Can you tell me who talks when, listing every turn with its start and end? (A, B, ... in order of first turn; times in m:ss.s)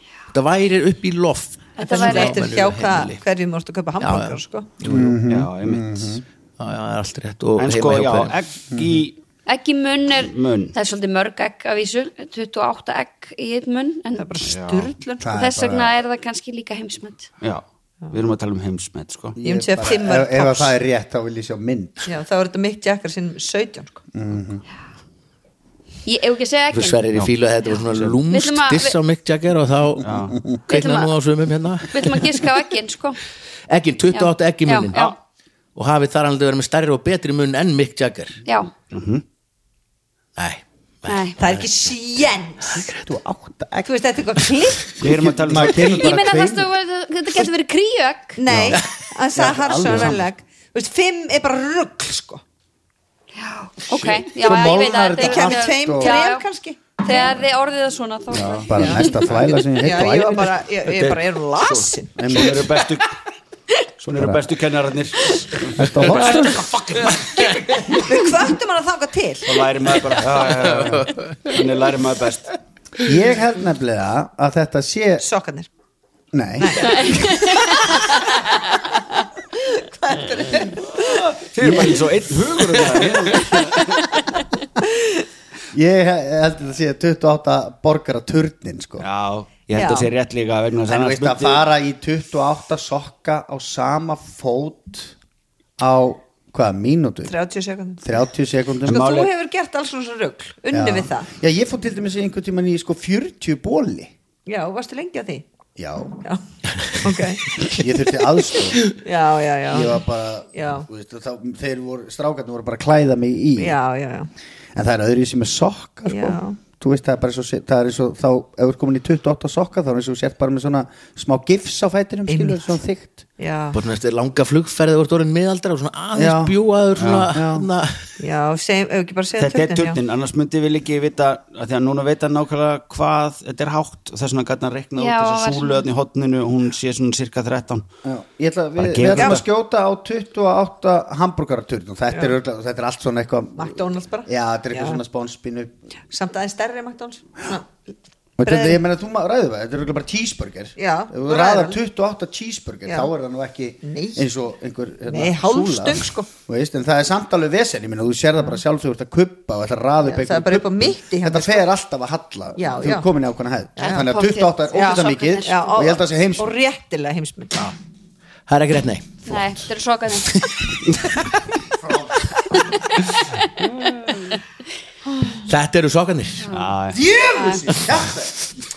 0:00.3-0:03.2 A
0:01.8-0:02.4 B
0:01.8-0:04.7 C
0:04.0-0:05.1 A
0:04.8-0:06.2 D
0:05.1-0:06.2 E
0:06.6-0:08.3 A
0:07.6-0:09.2 E
0:08.7-0:09.0 D
0:09.4-0:14.3 B
0:10.2-0:10.7 E
0:14.2-0:15.3 C
0:14.4-0:14.9 E
0:15.2-0:15.9 D
0:15.3-0:17.3 B
0:17.4-0:19.4 E
0:19.4-0:22.0 D
0:19.4-0:20.7 C
0:22.0-0:24.0 C
0:24.1-0:24.6 D
0:26.0-0:27.0 B
0:26.7-0:32.5 A
0:27.8-0:28.2 E
0:28.3-0:29.0 B
0:30.0-0:30.4 E
0:30.7-0:31.1 B
0:31.9-0:33.2 B
0:33.7-0:35.1 A
0:34.1-0:35.1 B
0:35.7-0:38.4 A
0:38.4-0:38.7 B
0:38.9-0:39.2 E
0:40.4-0:41.6 A
0:41.1-0:41.4 B
0:41.4-0:42.9 C
0:42.9-0:43.9 D
0:43.8-0:45.0 C
0:45.0-0:46.1 E
0:45.0-0:46.7 D
0:45.7-0:48.4 B
0:48.4-0:52.4 C
0:48.5-0:48.8 D
0:49.3-0:50.2 D
0:49.8-0:50.2 E
0:53.4-0:56.4 B
0:54.2-0:56.2 D
0:54.5-0:57.4 C
0:57.0-0:59.2 B
0:58.5-1:00.6 D
0:58.7-1:02.7 C
1:00.9-1:03.2 E
1:02.2-1:02.7 D
1:04.0-1:08.0 E
1:04.2-1:04.4 D
1:05.8-1:06.6 D
1:07.8-1:09.6 C
1:09.4-1:12.5 E
1:10.8-1:11.4 A
1:13.0-1:15.2 D
1:15.2-1:15.7 C
1:16.3-1:17.3 D
1:16.6-1:18.2 C
1:19.6-1:21.3 C
1:21.0-1:24.0 E
1:25.7-1:29.0 D
1:29.0-1:31.6 E
1:29.7-1:30.1 C
1:30.9-1:35.1 D
1:35.8-1:37.3 D
1:37.2-1:38.0 C
1:38.0-1:39.1 D
1:38.8-1:39.3 E
1:38.9-1:41.3 C
1:40.7-1:44.1 D
1:44.4-1:45.4 C
1:45.8-1:46.2 D
1:47.0-1:47.6 C
1:47.6-1:48.8 D
1:48.9-1:50.0 C
1:49.7-1:53.8 D
1:50.5-1:50.9 C
1:53.6-1:54.3 C
1:54.7-2:03.2 D
1:56.1-1:56.6 C
2:02.3-2:02.7 C
2:03.4-2:03.8 C
2:03.7-2:08.1 A
2:06.1-2:06.6 D
2:07.0-2:07.3 E
2:07.3-2:07.7 D
2:08.2-2:10.0 C
2:09.4-2:17.9 E
2:15.0-2:15.9 B
2:18.0-2:25.7 D
2:18.8-2:19.4 E
2:19.1-2:19.4 C
2:23.6-2:25.0 C
2:26.1-2:27.9 C
2:28.4-2:46.5 D
2:28.4-2:28.8 C
2:30.8-2:31.8 C
2:33.8-2:34.3 C
2:35.1-2:36.3 C
2:40.0-2:41.6 C
2:42.6-2:43.1 C
2:43.8-2:45.8 B
2:43.8-2:44.1 C
2:44.7-2:47.6 C
2:48.5-2:49.4 A
2:49.2-2:50.3 B
2:50.2-2:51.3 A
2:51.8-2:52.3 D
2:52.5-2:52.8 B
2:53.6-2:54.0 E
2:55.4-2:56.5 A
2:56.4-2:56.7 B
2:56.5-2:57.0 E
2:56.9-2:58.3 D
2:57.3-2:57.6 B